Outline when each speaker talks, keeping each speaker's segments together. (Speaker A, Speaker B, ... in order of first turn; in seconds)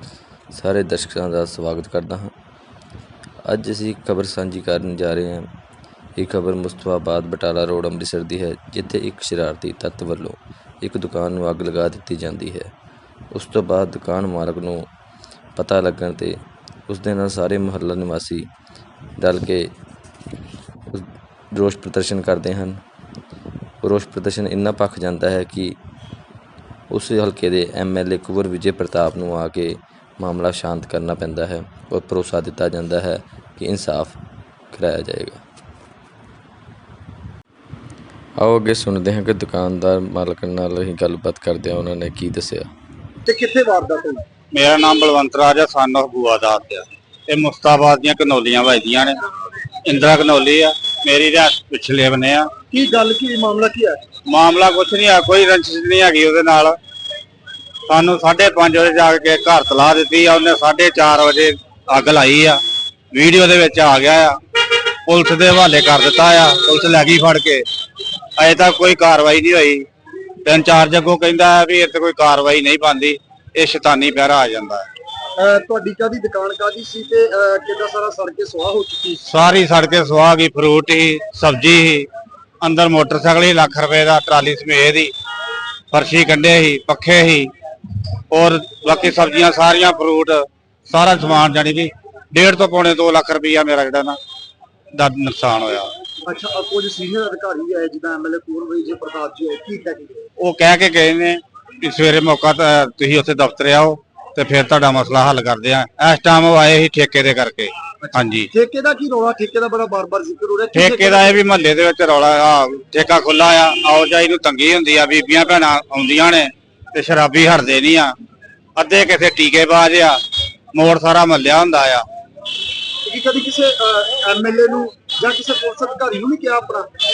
Speaker A: 0.5-2.3, 3.4-5.5, 6.2-12.7, 13.3-14.9, 15.5-18.5, 19.2-19.7, 20.9-22.8, 23.8-25.8, 26.9-34.2, 34.7-35.4, 38.4-42.7
Speaker B: 43.2-44.2, 52.7-54.0, 75.4-79.2, 96.2-100.2, 108.0-111.4, 123.0-126.9
Speaker C: 44.5-49.2, 49.8-52.5, 54.3-56.8, 57.9-62.6, 63.1-64.4, 65.1-67.6, 68.4-69.8, 70.4-74.9, 79.2-82.1, 82.6-85.1, 85.9-87.5, 88.3-94.2, 94.9-95.9, 100.4-108.5, 110.7-118.1, 118.8-120.2, 120.7-122.0